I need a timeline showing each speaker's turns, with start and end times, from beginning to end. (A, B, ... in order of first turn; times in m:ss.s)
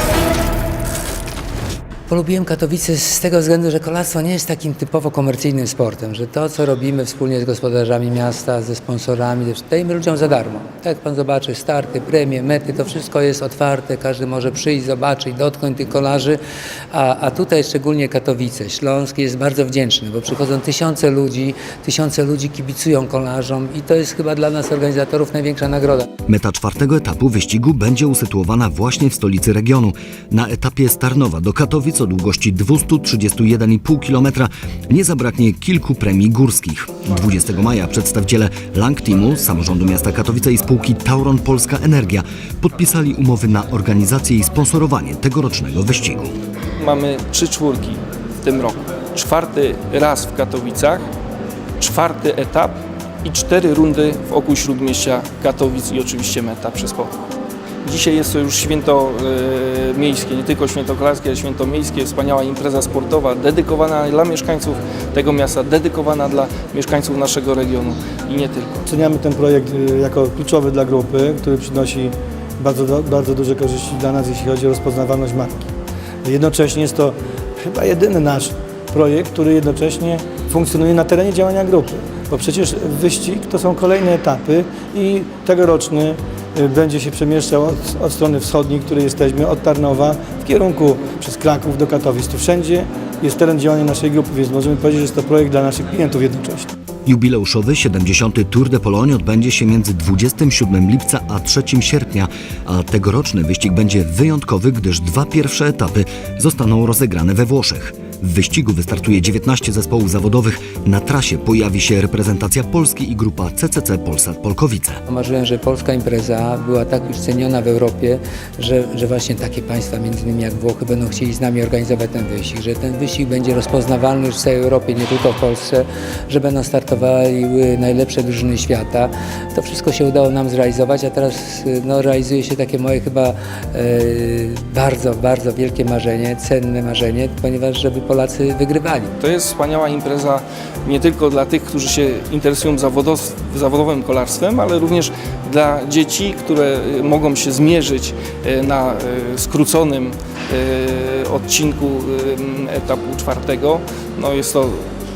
0:02.1-0:16.4 A
0:16.9-0:26.1 A
0:26.3-0:46.3 B
0:46.8-0:51.1 C
0:51.8-0:57.1 C
0:57.8-1:08.8 C
1:08.9-1:15.7 D
1:16.2-1:36.7 D
1:37.1-1:55.0 B
1:55.1-2:19.1 A
2:19.2-2:34.8 C